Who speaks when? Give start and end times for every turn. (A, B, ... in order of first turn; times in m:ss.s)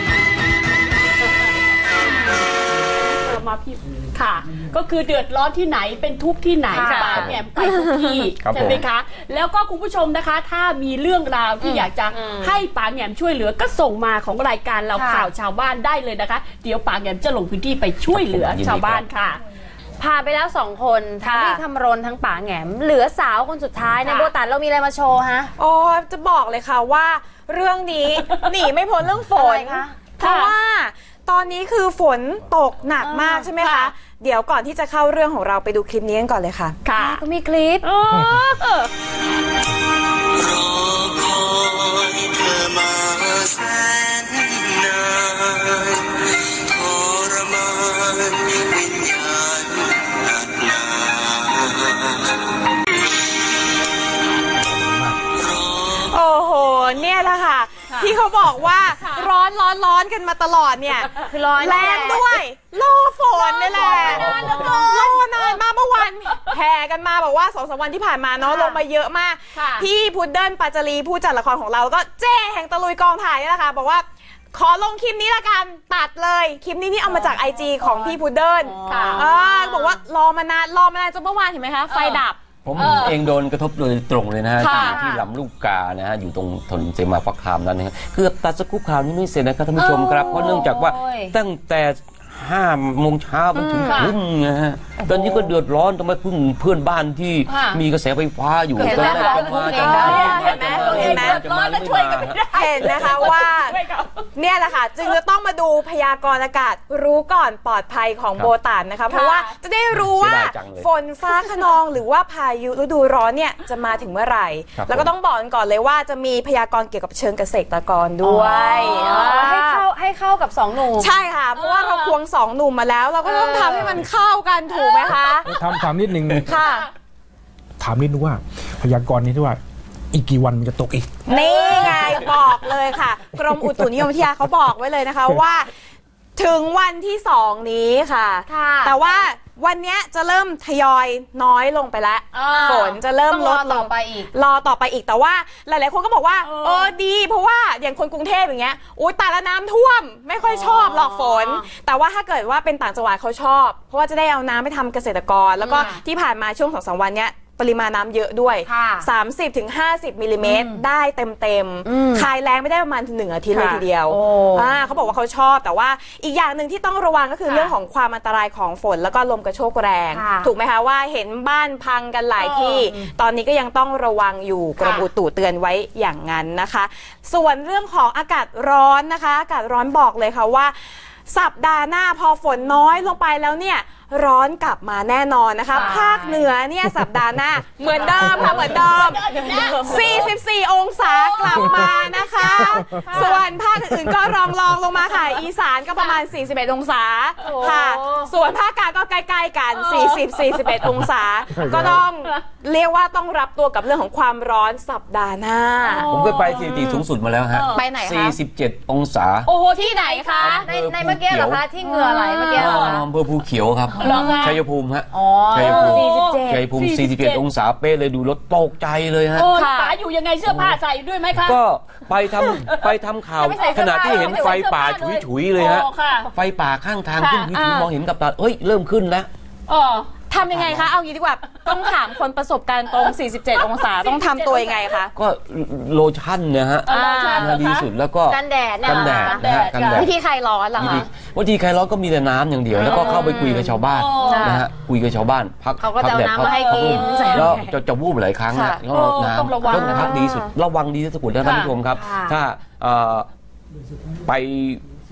0:03.0-0:19.4 A
0:06.7-0:07.9 B
0:08.4-0:08.8 C
0:11.6-0:12.4 B
0:14.9-0:15.3 B
0:18.1-0:19.0 C
0:20.0-0:25.5 B
0:21.2-0:21.6 D
0:24.0-0:24.3 A
0:25.6-0:36.8 D
0:29.3-0:29.9 B
0:30.2-0:30.5 A
0:33.0-0:33.5 B
0:33.6-0:33.9 A
0:36.8-0:37.2 A
0:36.9-0:37.8 B
0:37.8-0:38.9 A
0:54.7-0:55.2 E
0:56.0-1:22.4 D
0:57.9-0:58.2 A
0:59.0-0:59.3 A
1:01.2-1:02.4 B
1:03.4-1:05.6 A
1:08.4-1:08.8 A
1:09.5-1:09.9 A
1:17.1-1:18.2 A
1:18.8-1:19.9 A
1:21.9-1:22.2 A
1:22.6-1:43.3 C
1:22.7-1:23.2 A
1:24.6-1:25.0 A
1:24.6-1:25.2 B
1:29.8-1:30.7 A
1:30.3-1:31.3 B
1:33.6-1:34.1 D
1:33.9-1:34.2 A
1:35.0-1:35.5 B
1:37.5-1:37.8 A
1:38.8-1:44.3 A
1:38.8-1:40.5 B
1:39.8-1:41.4 D
1:42.5-1:43.8 D
1:44.3-1:59.8 D
1:49.1-1:49.6 A
1:50.0-1:50.9 C
1:51.3-1:51.6 A
1:54.8-1:55.1 C
1:58.2-2:01.1 B
1:58.8-1:59.5 A
2:01.0-2:05.5 D
2:01.6-2:02.2 A
2:03.2-2:04.0 B
2:04.9-2:05.2 A
2:05.4-2:06.5 E
2:06.4-2:06.9 D
2:06.5-2:06.9 A
2:07.8-2:09.6 E
2:10.1-2:11.2 E
2:11.2-2:15.7 D
2:11.3-2:12.4 A
2:16.4-3:00.7 D
2:18.5-2:19.2 B
2:22.3-2:23.0 A
2:22.4-2:24.3 B
2:26.4-2:26.9 A
2:30.4-2:31.6 B
2:35.6-2:36.0 A
2:35.7-2:36.0 B
2:38.7-2:39.0 B
2:40.4-2:40.8 B
2:41.8-2:42.3 B
2:43.5-2:44.8 B
2:50.1-2:50.5 B
2:52.4-2:52.9 A
2:54.8-2:55.1 A
3:01.3-3:26.1 D
3:05.7-3:06.5 A
3:07.8-3:10.4 A
3:11.0-3:13.6 A
3:13.1-3:13.4 B
3:15.1-3:15.4 A
3:17.4-3:18.3 B
3:17.4-3:17.8 A
3:19.8-3:20.9 A
3:21.5-3:22.0 E
3:25.8-3:26.4 B
3:26.0-3:27.8 A
3:26.1-3:29.5 C
3:27.7-3:28.4 D
3:29.4-3:30.6 A
3:29.8-3:30.6 D
3:30.4-3:33.0 B
3:30.4-3:31.6 C
3:31.8-3:33.0 A
3:32.5-3:39.5 C
3:34.0-3:34.6 A
3:34.0-3:34.5 B
3:35.1-3:36.7 B
3:35.5-3:37.4 A
3:39.3-3:41.6 A
3:39.5-3:39.9 D
3:40.4-3:40.8 C
3:41.4-3:49.3 C
3:42.4-3:46.3 A
3:43.4-3:44.6 B
3:47.2-3:47.5 A
3:47.5-3:47.9 D
3:49.7-3:50.1 A
3:50.3-3:55.1 D
3:50.4-3:50.9 C
3:51.6-3:52.0 A
3:52.9-3:55.0 A
3:55.1-4:00.1 C
3:56.9-3:57.9 A
3:56.9-3:57.5 D
3:58.3-3:59.4 B
3:58.8-4:00.1 A
3:59.9-4:01.1 D
4:00.8-4:13.3 C
4:02.8-4:04.6 B
4:02.8-4:03.1 D
4:02.9-4:04.6 A
4:05.8-4:07.7 B
4:06.5-4:07.6 A
4:08.5-4:08.8 D
4:08.9-4:10.2 A
4:09.6-4:10.3 B
4:11.4-4:11.7 A
4:11.9-4:12.4 B
4:14.2-4:14.8 C